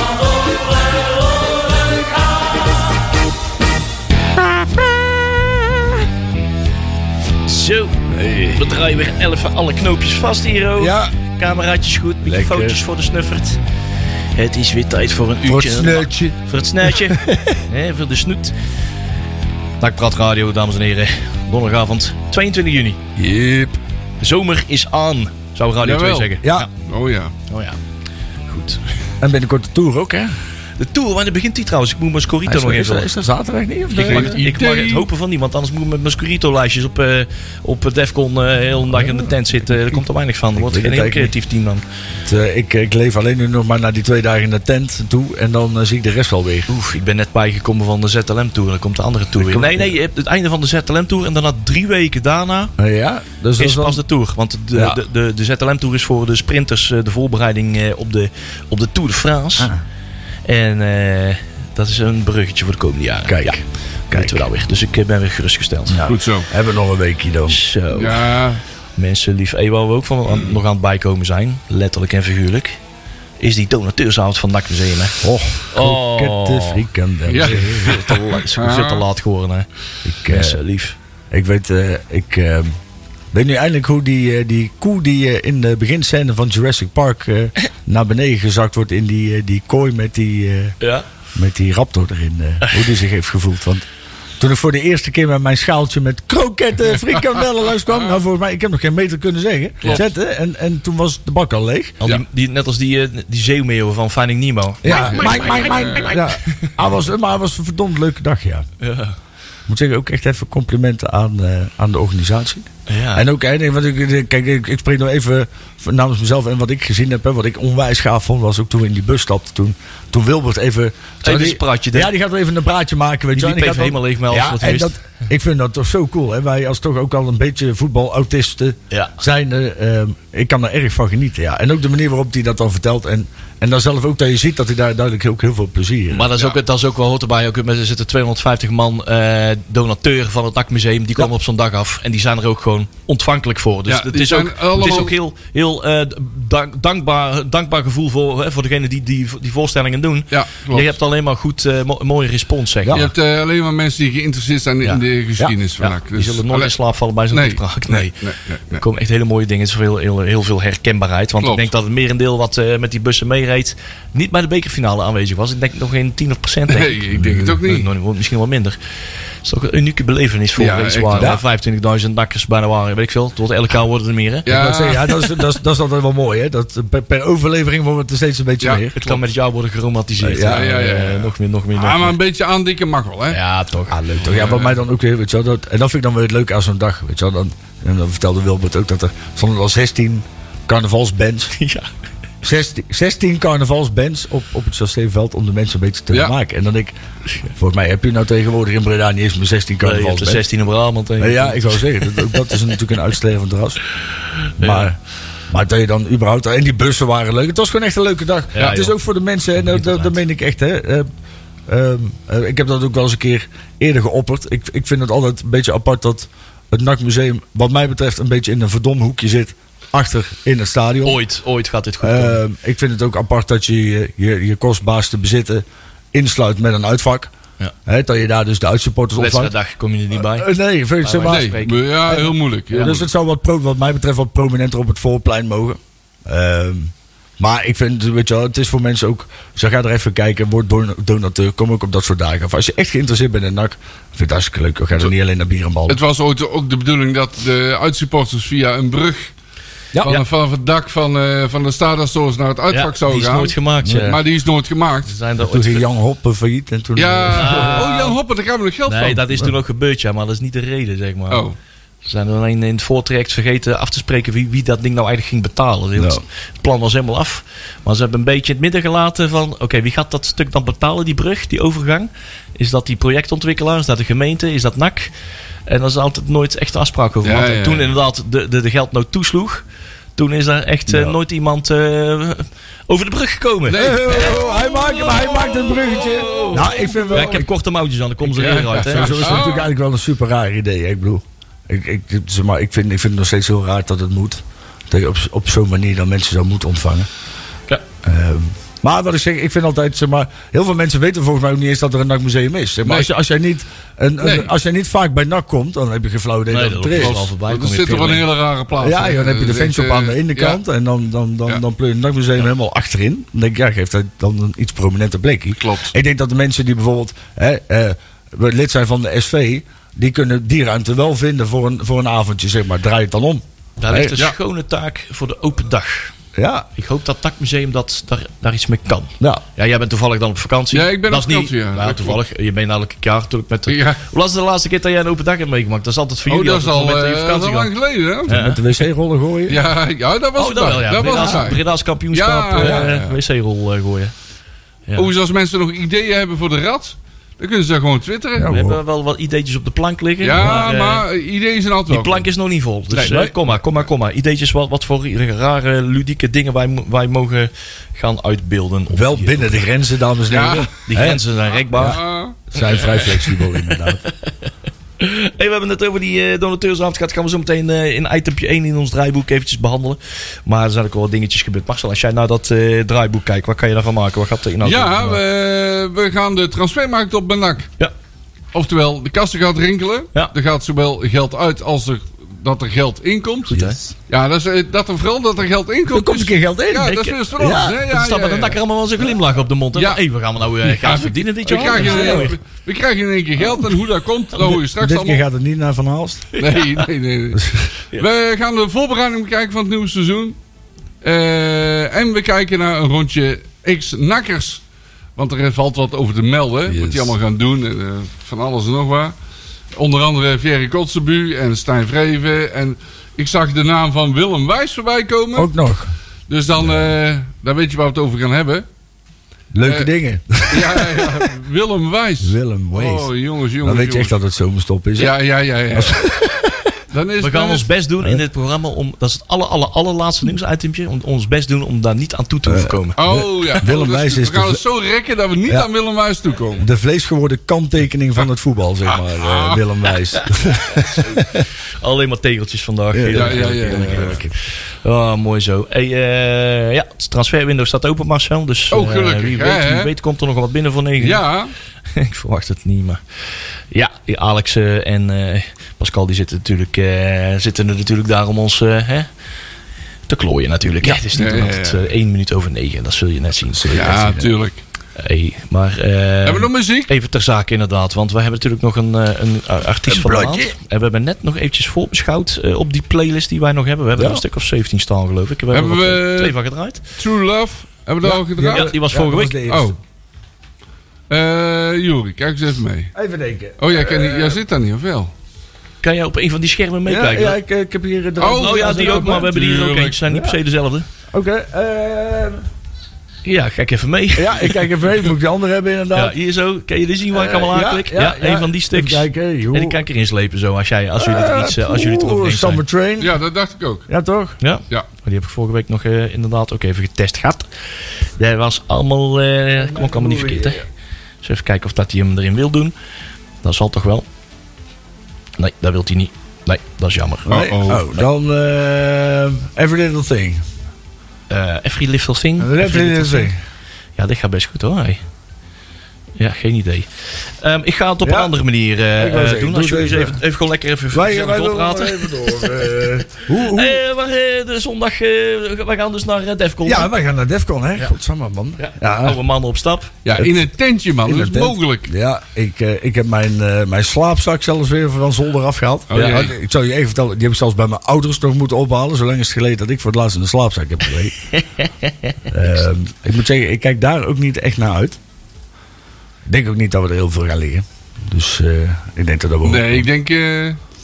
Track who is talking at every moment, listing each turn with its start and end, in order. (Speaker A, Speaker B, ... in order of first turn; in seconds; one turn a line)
Speaker A: 4.4-5.9
Speaker B: 7.4-13.6
Speaker A: 8.1-8.7
Speaker A: 10.8-11.1
Speaker A: 12.2-12.8
Speaker B: 14.3-18.5
Speaker A: 15.4-17.6
Speaker B: 19.8-23.0
Speaker A: 23.1-23.8
Speaker B: 24.2-26.7
Speaker C: 25.8-27.3
Speaker A: 26.4-26.7
Speaker B: 27.5-27.8
Speaker B: 28.5-28.8
Speaker A: 29.2-30.3
Speaker B: 30.8-33.1
Speaker A: 32.4-34.4
Speaker B: 33.9-41.8
Speaker C: 34.0-35.0
Speaker A: 39.0-39.3
Speaker A: 40.5-41.3
Speaker A: 42.2-46.7
Speaker B: 46.7-52.7
Speaker A: 49.4-49.9
Speaker A: 52.8-54.0
Speaker B: 53.6-59.7
Speaker A: 54.7-55.0
Speaker B: 60.4-66.0
Speaker A: 63.2-64.4
Speaker A: 65.9-67.6
Speaker C: 66.0-66.5
Speaker B: 67.5-68.3
Speaker C: 67.9-68.6
Speaker B: 69.0-72.8
Speaker B: 73.4-79.7
Speaker A: 75.2-78.1
Speaker C: 77.3-79.0
Speaker A: 80.0-80.6
Speaker B: 80.2-81.0
Speaker A: 81.3-82.7
Speaker A: 83.3-90.8
Speaker B: 90.8-91.0
Speaker A: 91.3-93.8
Speaker B: 92.6-92.9
Speaker A: 94.4-102.0
Speaker B: 102.0-106.7
Speaker A: 104.8-108.7
Speaker C: 104.8-106.2
Speaker B: 108.8-109.2
Speaker A: 109.7-136.3
Speaker B: 112.9-113.2
Speaker B: 121.2-122.1
Speaker B: 123.3-124.9
Speaker B: 136.1-153.0
Speaker C: 143.9-145.1
Speaker C: 150.3-150.9
Speaker A: 152.8-153.1
Speaker C: 152.9-156.7
Speaker B: 155.8-158.2
Speaker C: 157.3-158.8
Speaker B: 158.7-168.8
Speaker C: 161.4-161.7
Speaker C: 166.7-167.9
Speaker B: 169.4-174.5
Speaker C: 170.6-171.4
Speaker C: 174.4-175.3
Speaker A: 174.5-178.9
Speaker C: 178.6-179.2
Speaker B: 179.0-182.1
Speaker A: 180.2-180.7
Speaker C: 180.4-183.4
Speaker B: 183.3-184.0
Speaker A: 183.9-191.5
Speaker C: 184.2-184.8
Speaker B: 191.5-191.9
Speaker A: 192.4-196.9
Speaker A: 197.5-200.4
Speaker B: 199.8-202.5
Speaker A: 201.2-203.8
Speaker B: 204.6-204.9
Speaker A: 204.6-205.0
Speaker A: 205.5-211.1
Speaker B: 208.5-208.9
Speaker B: 209.6-210.2
Speaker A: 211.7-221.2
Speaker B: 221.0-222.4
Speaker A: 222.0-227.3
Speaker A: 227.8-229.5
Speaker B: 229.2-230.5
Speaker A: 230.1-246.0
Speaker B: 231.0-232.1
Speaker C: 231.3-233.0
Speaker B: 232.7-233.0
Speaker C: 245.9-249.3
Speaker C: 249.9-255.1
Speaker B: 252.7-254.2
Speaker A: 253.8-254.2
Speaker B: 255.0-255.8
Speaker A: 255.4-257.9
Speaker C: 256.9-259.3
Speaker B: 257.3-258.1
Speaker B: 258.9-261.4
Speaker C: 261.3-261.5
Speaker B: 262.0-275.1
Speaker A: 265.9-266.2
Speaker B: 275.7-279.6
Speaker C: 277.2-277.9
Speaker B: 280.1-289.4
Speaker A: 280.9-281.2
Speaker C: 283.7-284.4
Speaker A: 283.7-287.5
Speaker C: 286.8-287.3
Speaker C: 288.4-289.7
Speaker A: 288.4-297.1
Speaker A: 298.0-307.3
Speaker C: 302.8-303.1
Speaker C: 304.2-304.5
Speaker B: 306.5-308.2
Speaker C: 306.9-310.6
Speaker A: 308.8-324.2
Speaker C: 315.6-315.9
Speaker B: 323.8-326.1
Speaker A: 326.4-326.7
Speaker B: 326.8-337.7
Speaker C: 330.7-332.2
Speaker C: 333.7-334.0
Speaker C: 336.2-338.3
Speaker B: 338.3-338.6
Speaker A: 338.3-339.6
Speaker C: 339.5-343.2
Speaker B: 340.4-344.1
Speaker A: 342.6-342.9
Speaker C: 344.9-348.5
Speaker A: 348.4-348.8
Speaker B: 348.4-351.0
Speaker C: 350.2-352.2
Speaker A: 350.4-350.6
Speaker B: 351.9-359.6
Speaker C: 352.9-353.2
Speaker A: 352.9-353.4
Speaker A: 358.9-361.2
Speaker C: 360.3-360.7
Speaker B: 360.9-362.0
Speaker C: 361.8-363.0
Speaker A: 362.5-364.0
Speaker B: 362.6-375.2
Speaker C: 374.6-377.7
Speaker C: 378.5-383.6
Speaker B: 383.5-383.8
Speaker A: 383.5-383.9
Speaker C: 384.1-388.6
Speaker A: 385.9-387.9
Speaker B: 386.8-387.1
Speaker B: 387.9-392.4
Speaker C: 389.7-390.0
Speaker C: 390.6-395.2
Speaker A: 391.4-392.3
Speaker A: 394.4-396.2
Speaker B: 396.3-396.9
Speaker C: 396.4-400.4
Speaker C: 401.0-404.6
Speaker C: 405.1-409.1
Speaker A: 406.7-407.1
Speaker C: 409.7-415.5
Speaker A: 415.3-415.9
Speaker C: 416.3-418.6
Speaker A: 416.5-416.9
Speaker A: 419.5-421.3
Speaker C: 419.6-419.9
Speaker C: 420.5-424.1
Speaker A: 422.2-426.8
Speaker C: 425.0-426.1
Speaker C: 426.9-427.7
Speaker B: 427.2-433.0
Speaker A: 432.4-434.6
Speaker C: 432.9-436.6
Speaker A: 436.6-441.5
Speaker C: 438.9-439.6
Speaker B: 441.8-451.2
Speaker A: 442.9-444.3
Speaker C: 443.1-444.2
Speaker C: 448.7-449.9
Speaker C: 451.0-451.5
Speaker B: 451.9-453.0
Speaker B: 453.7-459.1
Speaker B: 460.1-463.9
Speaker C: 461.1-461.8
Speaker A: 463.5-464.4
Speaker C: 463.7-464.6
Speaker B: 464.9-476.8
Speaker C: 466.2-466.9
Speaker A: 469.9-470.6
Speaker A: 473.9-474.2
Speaker C: 475.5-476.4
Speaker C: 476.9-478.8
Speaker A: 478.0-479.8
Speaker B: 478.4-479.5
Speaker C: 479.4-479.7
Speaker C: 481.1-482.9
Speaker A: 482.9-484.4
Speaker C: 483.6-485.1
Speaker B: 485.8-487.4
Speaker A: 486.9-489.3
Speaker C: 488.2-490.0
Speaker B: 488.4-490.9
Speaker A: 490.1-490.4
Speaker A: 491.1-492.4
Speaker B: 493.2-494.7
Speaker A: 494.1-496.1
Speaker B: 495.9-502.6
Speaker A: 497.1-499.8
Speaker A: 501.0-503.1
Speaker C: 503.0-503.8
Speaker A: 503.9-504.4
Speaker B: 504.4-507.5
Speaker B: 508.1-510.6
Speaker A: 509.6-510.6
Speaker B: 511.2-512.7
Speaker B: 513.4-514.1
Speaker B: 515.4-517.4
Speaker A: 517.3-520.4
Speaker C: 517.3-517.8
Speaker B: 521.3-523.3
Speaker A: 522.4-523.4
Speaker B: 524.0-525.0
Speaker B: 526.2-532.7
Speaker A: 528.0-528.3
Speaker A: 529.0-530.2
Speaker A: 530.9-533.8
Speaker B: 533.3-536.9
Speaker A: 536.6-539.2
Speaker B: 538.6-539.9
Speaker C: 540.0-541.9
Speaker A: 541.0-551.3
Speaker C: 545.9-546.3
Speaker B: 545.9-546.3
Speaker B: 551.3-552.2
Speaker A: 552.3-555.0
Speaker A: 556.2-559.9
Speaker C: 559.4-560.6